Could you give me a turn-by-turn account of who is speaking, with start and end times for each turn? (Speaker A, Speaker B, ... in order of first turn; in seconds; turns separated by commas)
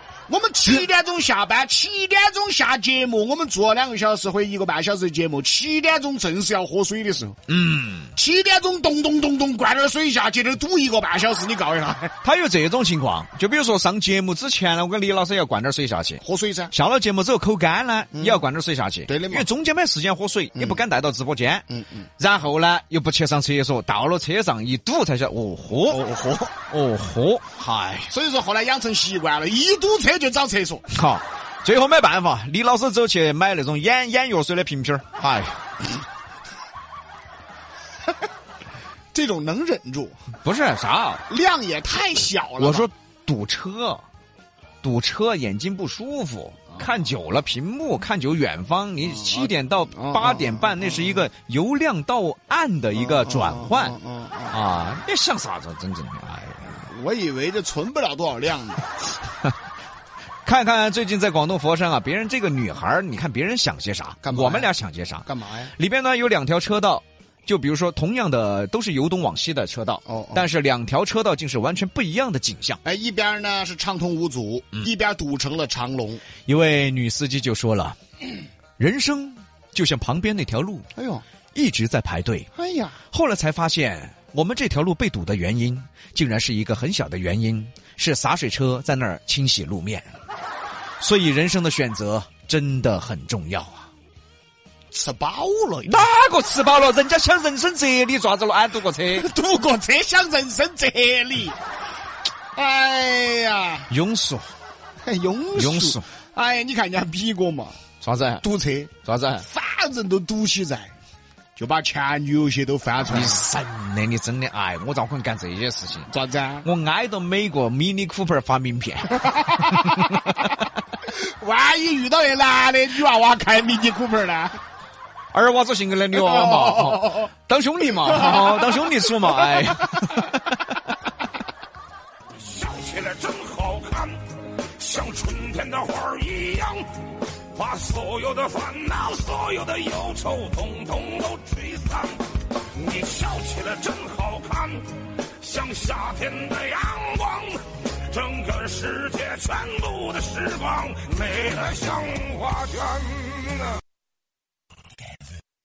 Speaker A: 0.3-7.4, Speaker B: 7.5-8.1, Speaker A: 8.1-12.1, Speaker B: 12.2-21.6, Speaker A: 16.2-16.7, Speaker A: 18.1-18.4, Speaker A: 19.1-19.5, Speaker A: 21.7-22.0, Speaker B: 22.2-26.0, Speaker A: 25.9-26.5, Speaker B: 26.7-28.1, Speaker A: 28.1-30.9, Speaker B: 30.9-35.6, Speaker A: 39.1-40.2, Speaker B: 40.4-41.2, Speaker A: 41.3-42.9, Speaker B: 42.6-44.0, Speaker B: 44.8-54.0, Speaker A: 49.2-51.2, Speaker A: 53.0-54.6, Speaker B: 54.5-56.9, Speaker A: 56.9-58.8, Speaker B: 60.4-65.2, Speaker A: 64.2-64.7, Speaker A: 65.2-65.7, Speaker B: 65.8-72.8, Speaker A: 70.1-70.5, Speaker A: 72.8-76.2, Speaker B: 76.5-78.0, Speaker B: 78.8-80.8, Speaker A: 80.9-81.2, Speaker B: 81.5-82.5, Speaker A: 82.5-83.0, Speaker B: 83.1-90.1, Speaker B: 91.0-93.9, Speaker A: 94.9-96.0, Speaker B: 95.8-99.3, Speaker A: 99.1-101.6, Speaker A: 102.5-103.9, Speaker B: 103.9-104.5, Speaker A: 105.0-107.8, Speaker B: 105.5-106.0, Speaker B: 108.0-108.4, Speaker A: 108.4-110.9, Speaker B: 109.0-109.5, Speaker A: 111.5-113.4, Speaker B: 113.1-116.1, Speaker A: 116.1-116.7, Speaker B: 116.6-119.3, Speaker A: 119.2-119.9, Speaker A: 121.1-124.6, Speaker B: 125.3-130.5, Speaker A: 126.2-127.3, Speaker A: 128.1-129.5, Speaker C: 132.5-134.2, Speaker C: 134.8-136.9, Speaker C: 137.5-153.1